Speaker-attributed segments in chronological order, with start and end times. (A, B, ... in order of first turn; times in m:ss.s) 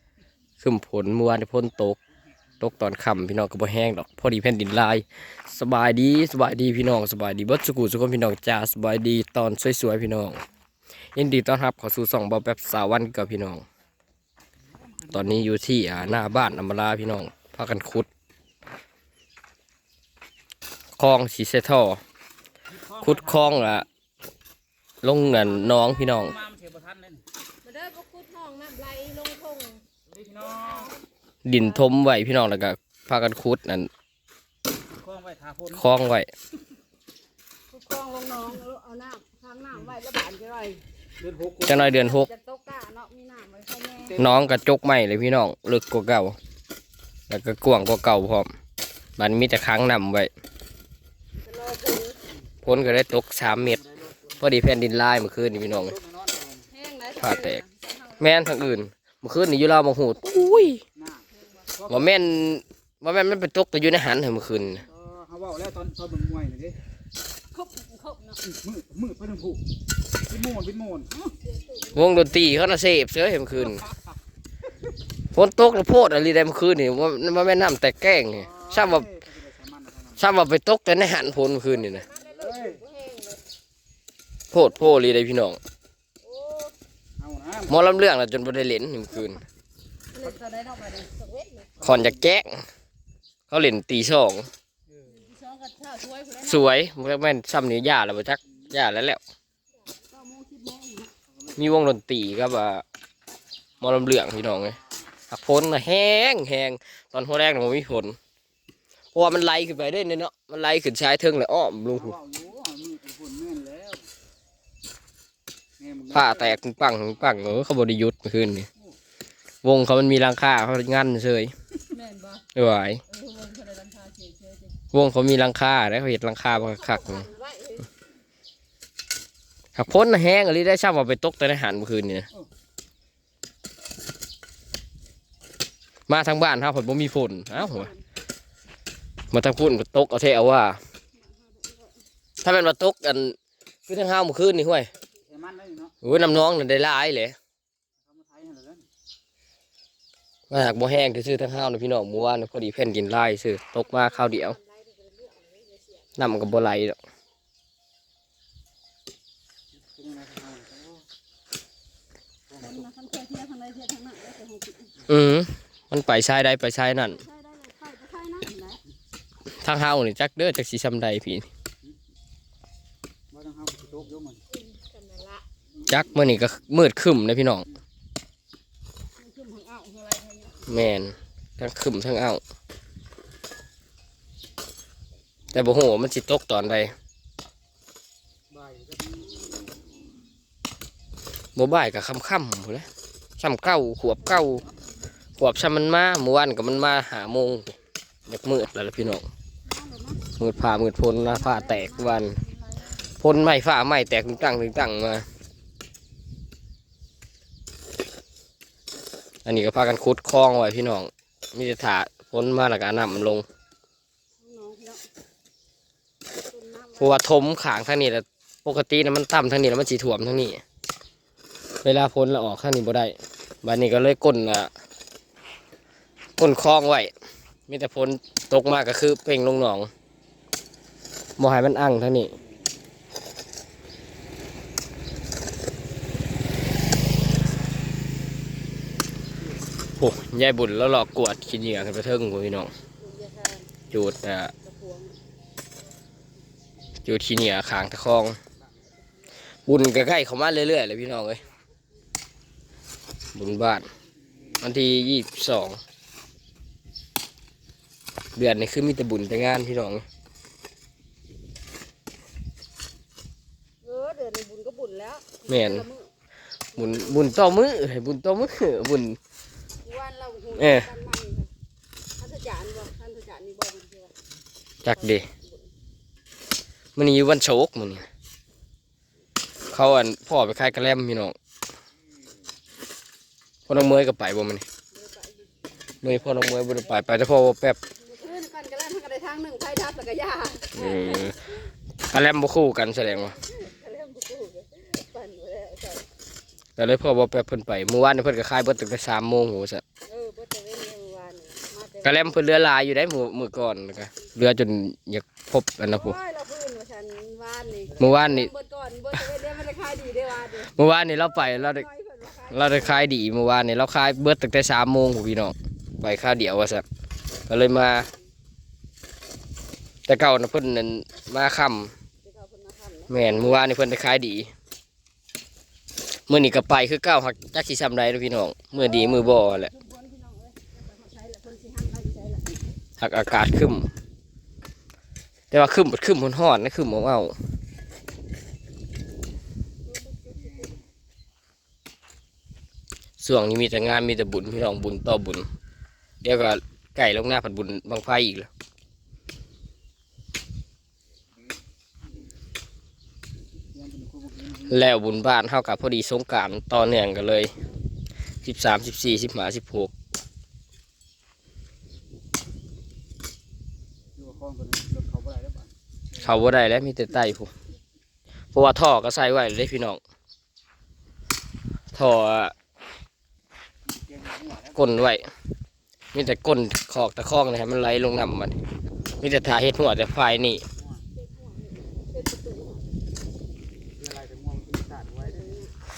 0:00.6-0:02.0 A
0:02.6-0:10.4 A
0:11.1-0:13.6 A
0:14.9-0:15.3 B
0:15.1-0:18.1 A
0:21.0-0:22.0 A
0:22.7-0:23.8 B
0:23.0-0:23.9 A
0:25.0-0:26.4 A
0:25.4-0:27.2 B
0:27.6-0:29.8 C
0:30.1-0:31.0 B
0:30.4-0:31.0 C
0:31.4-0:33.9 A
0:34.9-0:35.9 B
0:35.7-0:36.3 A
0:37.7-0:40.8 C
0:41.2-0:41.9 B
0:41.7-0:42.3 A
0:41.8-0:44.2 C
0:44.1-0:44.6 B
0:44.2-0:46.4 A
0:47.3-0:48.5 A
0:49.2-0:50.3 A
0:51.4-0:52.2 C
0:52.6-0:53.8 A
0:53.6-0:54.5 B
0:54.4-0:56.0 A
0:55.8-0:56.7 B
0:56.7-0:58.5 C
0:57.2-0:57.6 A
0:58.2-1:00.8 A
1:01.0-1:02.4 B
1:01.9-1:04.9 A
1:04.9-1:06.8 B
1:07.5-1:08.4 C
1:08.4-1:09.6 B
1:10.3-1:11.4 B
1:11.4-1:12.4 C
1:11.9-1:13.8 A
1:15.3-1:19.1 A
1:18.3-1:20.2 B
1:20.2-1:22.1 A
1:21.6-1:23.4 C
1:22.2-1:22.8 B
1:24.5-1:25.6 A
1:26.2-1:26.8 C
1:27.2-1:27.8 B
1:27.7-1:29.4 A
1:30.1-1:31.7 C
1:31.8-1:32.2 B
1:31.8-1:32.6 A
1:33.5-1:34.5 A
1:34.9-1:35.2 B
1:35.1-1:36.7 C
1:36.4-1:39.2 A
1:40.0-1:41.1 C
1:41.3-1:41.6 B
1:41.6-1:42.8 A
1:43.8-1:44.8 A
1:45.3-1:48.2 A
1:49.1-1:52.2 A
1:51.9-1:54.1 B
1:55.8-1:56.6 B
1:56.1-1:58.7 A
1:59.6-2:01.5 A
2:01.8-2:02.4 C
2:02.6-2:03.0 A
2:03.1-2:04.8 C
2:04.9-2:07.3 A
2:06.5-2:07.9 C
2:09.8-2:12.3 A
2:16.1-2:17.9 A
2:17.5-2:18.0 C
2:19.3-2:20.8 A
2:21.2-2:22.0 C
2:22.4-2:24.9 A
2:25.2-2:26.0 B
2:26.0-2:27.4 A
2:28.0-2:28.9 B
2:30.5-2:34.6 A
2:33.8-2:36.2 C
2:36.2-2:37.0 A
2:39.9-2:41.0 B
2:42.5-2:42.9 B
2:42.6-2:45.0 C
2:45.1-2:47.2 A
2:47.0-2:48.8 C
2:49.6-2:51.5 A
2:53.3-2:54.4 B
2:54.5-2:55.4 C
2:55.9-2:57.7 A
2:59.2-3:00.8 C
3:00.7-3:02.4 A
3:05.5-3:07.0 A
3:08.5-3:09.4 B
3:11.6-3:14.6 A
3:14.3-3:14.7 C
3:15.4-3:17.7 A
3:18.3-3:19.3 A
3:19.7-3:20.2 C
3:20.4-3:22.4 A
3:21.2-3:23.0 C
3:23.2-3:25.2 A
3:29.4-3:33.5 A
3:34.4-3:35.0 C
3:36.4-3:37.4 C
3:37.0-3:40.6 A
3:41.8-3:44.7 A
3:46.4-3:47.1 A
3:47.7-3:49.9 A
3:51.4-3:52.3 A
3:59.4-3:59.7 B
4:00.0-4:02.7 A
4:02.8-4:03.7 C
4:03.9-4:04.5 A
4:04.6-4:05.2 C
4:07.0-4:08.4 A
4:08.6-4:09.0 B
4:09.6-4:11.4 A
4:13.3-4:13.9 A
4:14.6-4:15.8 A
4:18.4-4:20.0 A
4:23.8-4:26.1 C
4:25.5-4:25.9 A
4:26.8-4:27.5 C
4:26.8-4:29.2 A
4:29.8-4:31.5 C
4:30.6-4:30.9 A
4:32.2-4:34.1 C
4:34.8-4:35.3 A
4:34.9-4:35.7 C
4:37.0-4:38.1 A
4:39.7-4:41.4 A
4:43.7-4:44.6 A
4:44.9-4:45.5 C
4:46.0-4:47.8 A
4:46.2-4:47.1 C
4:48.1-4:51.7 C
4:50.7-4:51.4 A
4:52.1-4:53.4 A
4:53.1-4:56.0 C
4:56.8-4:59.8 A
5:00.1-5:02.4 C
5:02.0-5:06.2 A
5:05.9-5:13.1 C
5:08.0-5:08.5 A
5:10.6-5:11.9 A
5:12.5-5:16.8 A
5:17.5-5:18.1 A
5:20.1-5:21.9 A
5:22.2-5:23.5 C
5:23.1-5:24.5 A
5:26.3-5:29.7 A
5:28.8-5:32.6 C
5:33.0-5:33.9 A
5:35.5-5:37.4 A
5:39.9-5:40.8 C
5:43.2-5:45.5 A
5:46.2-5:48.5 A
5:53.7-5:54.9 B
5:54.7-5:57.5 A
5:58.4-5:59.9 A
6:04.2-6:05.7 B
6:06.2-6:07.5 A
6:08.5-6:10.0 A
6:11.9-6:12.5 A
6:13.9-6:14.8 B
6:14.8-6:15.3 A
6:16.1-6:18.6 A
6:19.2-6:20.6 A
6:20.8-6:21.0 B
6:21.2-6:22.8 C
6:24.0-6:25.6 B
6:25.2-6:25.7 C